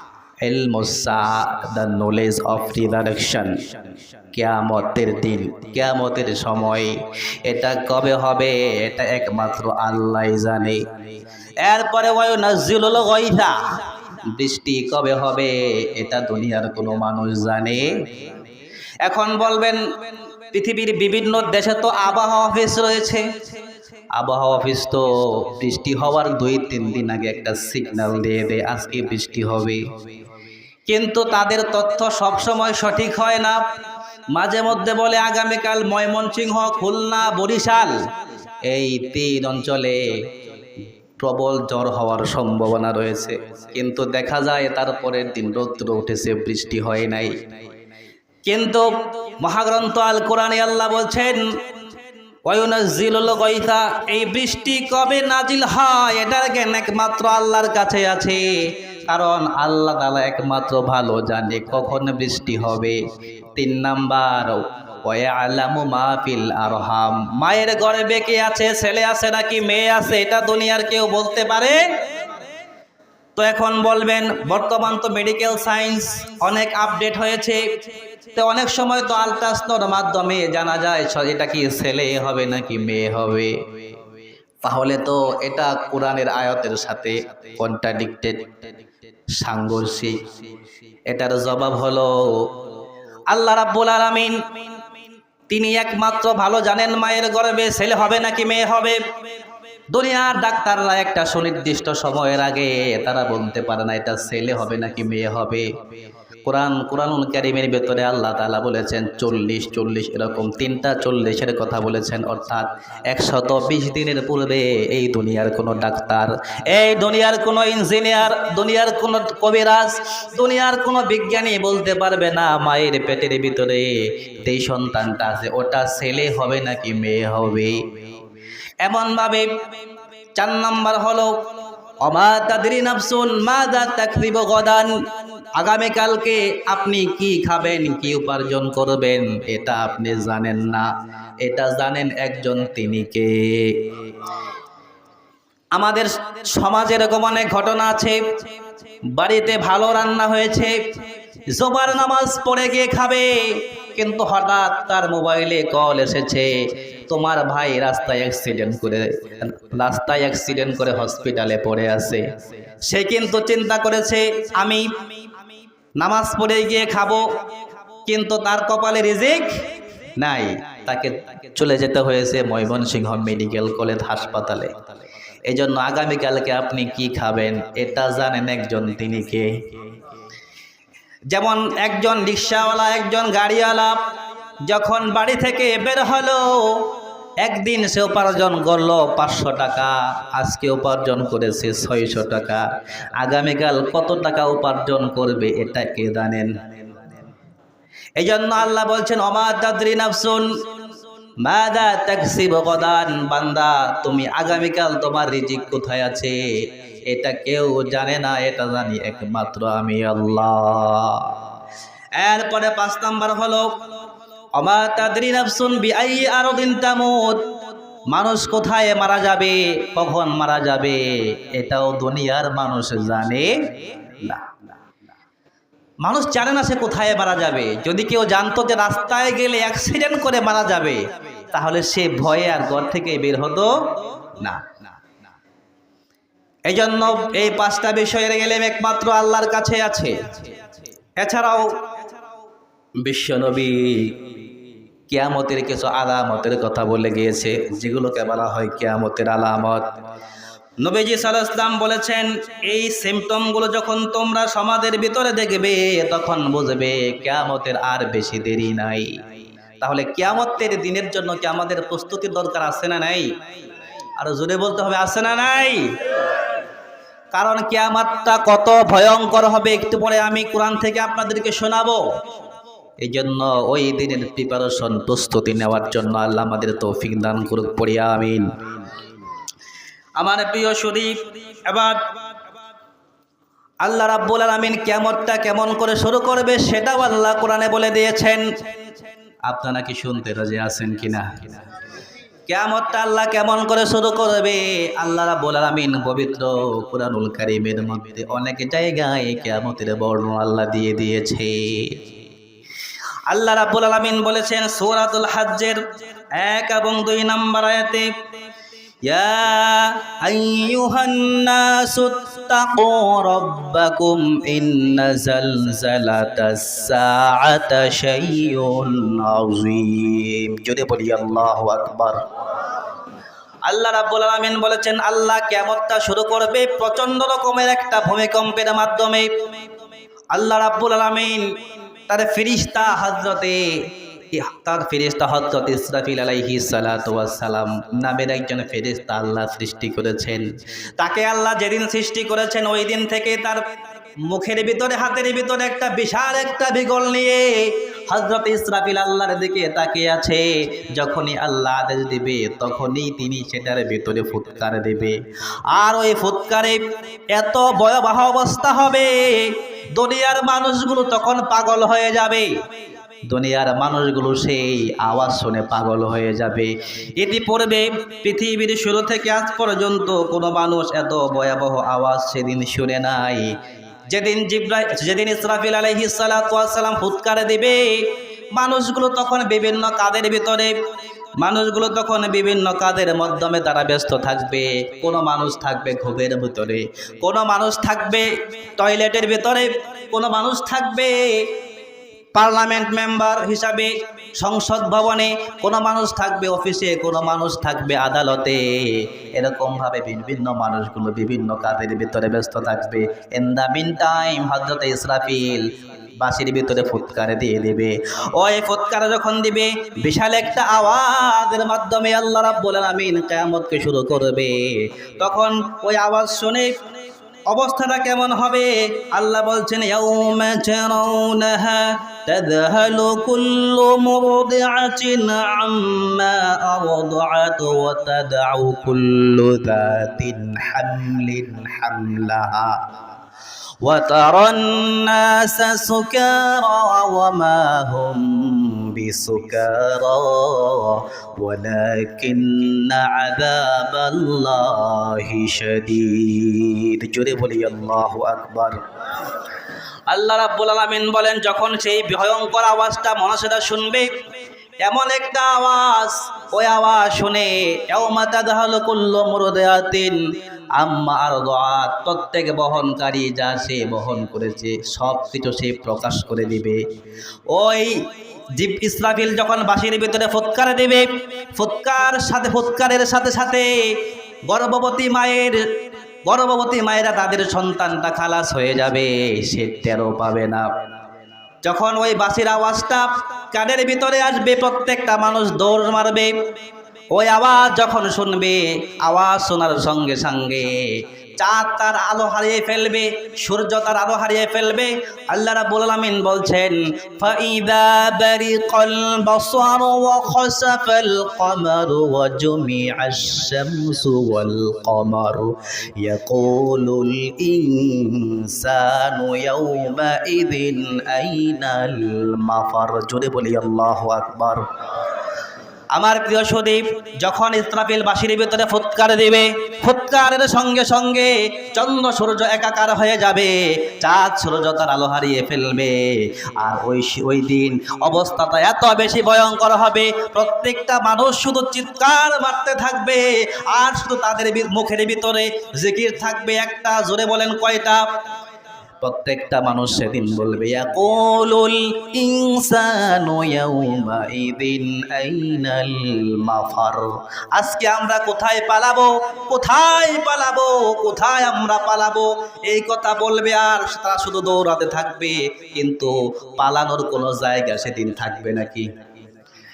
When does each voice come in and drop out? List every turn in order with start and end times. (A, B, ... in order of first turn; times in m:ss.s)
0:00.4-0:03.6 A
0:04.3-0:07.0 A
0:07.5-0:10.8 A
0:11.6-0:13.6 A
0:14.3-0:18.0 A
0:19.0-0:19.8 A
0:20.5-0:23.2 A
0:24.2-0:29.8 A
0:30.9-0:33.6 A
0:34.3-0:38.0 A
0:38.7-0:40.1 A
0:41.2-0:47.3 A
0:48.4-0:51.5 A
0:52.5-0:58.5 A
0:59.1-1:03.0 A
1:03.6-1:11.8 A
1:13.4-1:17.6 A
1:18.4-1:23.6 A
1:24.6-1:28.6 A
1:29.4-1:30.2 A
1:31.1-1:32.5 A
1:33.3-1:34.4 A
1:35.5-1:39.0 A
1:39.9-1:45.7 A
1:46.4-2:07.8 A
2:08.8-2:09.5 A
2:10.4-2:11.4 A
2:12.0-2:14.9 A
2:15.6-2:20.9 A
2:21.4-2:23.9 A
2:25.8-2:28.2 A
2:29.1-2:30.8 A
2:31.5-2:42.2 A
2:42.9-2:45.0 A
2:46.0-2:47.3 A
2:48.1-2:49.5 A
2:50.2-2:54.7 A
2:55.5-2:59.5 A
3:01.3-3:04.0 A
3:04.7-3:06.9 A
3:07.4-3:12.6 A
3:13.2-3:16.5 A
3:18.2-3:20.5 A
3:21.4-3:26.4 A
3:27.1-3:31.4 A
3:32.2-3:33.8 A
3:34.6-3:37.5 A
3:38.1-3:44.6 A
3:46.0-3:54.9 A
3:56.7-4:00.2 A
4:01.2-4:01.7 A
4:03.0-4:04.3 A
4:05.1-4:09.9 A
4:10.8-4:19.2 A
4:19.8-4:23.3 A
4:24.2-4:25.9 A
4:27.3-4:32.0 A
4:33.0-4:38.5 A
4:40.2-4:42.0 A
4:43.8-4:48.4 A
4:49.5-4:51.4 A
4:52.5-5:02.0 A
5:03.3-5:05.8 A
5:06.4-5:08.1 A
5:09.1-5:22.2 A
5:23.7-5:29.3 A
5:30.3-5:31.5 A
5:32.1-5:33.8 A
5:34.3-5:40.4 A
5:41.0-5:43.6 A
5:44.3-5:55.2 A
5:55.7-6:02.5 A
6:03.3-6:13.6 A
6:14.1-6:20.7 A
6:21.4-6:31.5 A
6:32.3-6:45.7 A
6:46.2-6:56.8 A
6:57.5-7:12.8 A
7:13.8-7:28.8 A
7:30.1-7:34.1 A
7:34.8-7:40.2 A
7:40.8-7:46.8 A
7:47.5-7:48.0 A
7:48.6-7:54.0 A
7:54.5-7:55.7 A
7:56.3-8:00.7 A
8:01.6-8:06.3 A
8:07.1-8:34.6 A
8:35.9-8:58.0 A
8:59.0-9:18.9 A